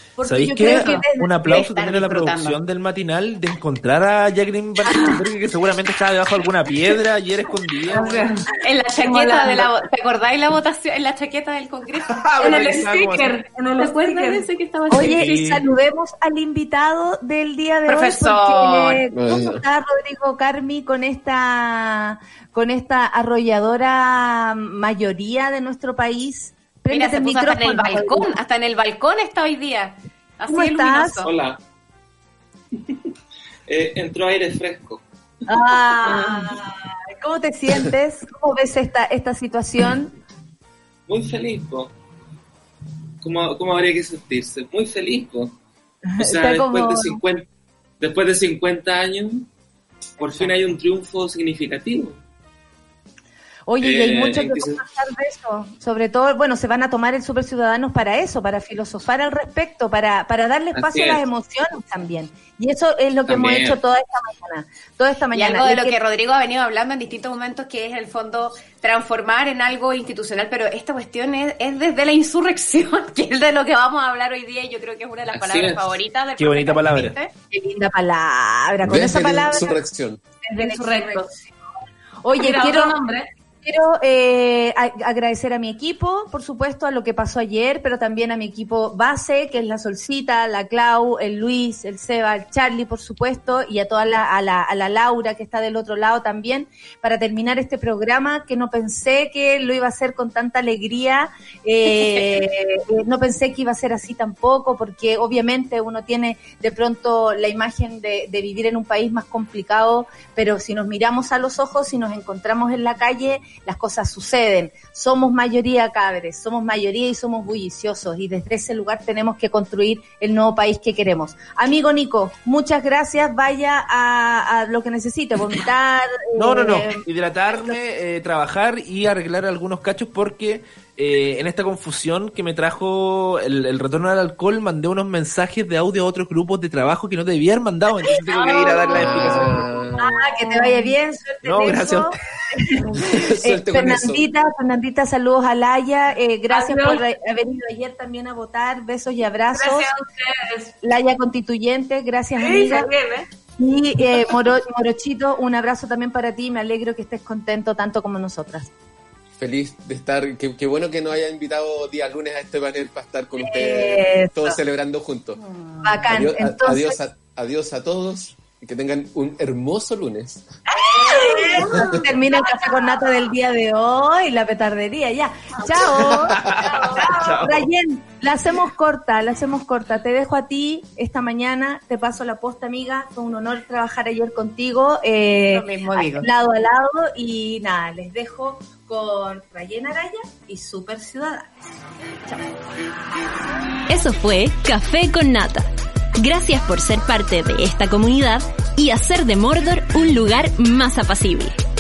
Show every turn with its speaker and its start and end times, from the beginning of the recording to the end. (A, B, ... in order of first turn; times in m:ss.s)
0:00.2-0:01.4 A
0:00.2-0:08.2 B
0:00.6-0:02.6 C
0:04.9-0:05.2 D
0:07.9-0:09.7 D
0:08.2-0:12.9 C
0:12.1-0:13.4 B
0:12.4-0:14.5 D
0:13.6-0:15.4 C
0:14.9-0:28.3 A
0:15.0-0:15.6 B
0:17.9-0:19.0 C
0:19.1-0:19.6 E
0:26.9-0:31.3 C
0:30.5-0:31.2 A
0:31.2-0:31.6 F
0:33.7-0:35.0 F
0:35.5-0:40.2 A
0:36.1-0:36.4 F
0:41.1-0:41.9 F
0:43.2-0:45.6 F
0:46.1-0:47.2 A
0:46.2-0:47.5 F
0:48.0-0:49.5 F
0:50.2-0:52.2 F
0:53.7-1:06.0 A
0:53.8-0:54.8 F
1:00.8-1:01.2 F
1:03.3-1:03.8 F
1:05.3-1:17.3 C
1:15.3-1:15.9 F
1:16.4-1:17.2 B
1:17.5-1:19.8 A
1:18.8-1:20.2 E
1:20.4-1:21.4 A
1:20.6-1:21.3 D
1:22.2-1:23.0 A
1:22.4-1:23.3 D
1:23.6-2:07.8 A
2:06.4-2:19.7 B
2:18.0-2:20.9 D
2:18.9-2:20.1 E
2:20.0-2:29.9 A
2:21.4-2:22.2 B
2:23.2-2:24.2 E
2:26.5-2:27.0 D
2:29.5-2:30.7 D
2:30.8-2:32.9 A
2:32.4-2:33.3 D
2:33.6-2:38.7 A
2:34.0-2:34.4 D
2:39.4-2:45.4 E
2:43.4-2:44.6 A
2:45.8-2:47.0 A
2:46.1-2:50.6 E
2:50.8-2:52.5 D
2:50.9-3:11.7 A
2:56.0-2:57.1 D
2:56.3-2:57.7 B
3:05.5-3:06.3 C
3:13.9-3:21.6 G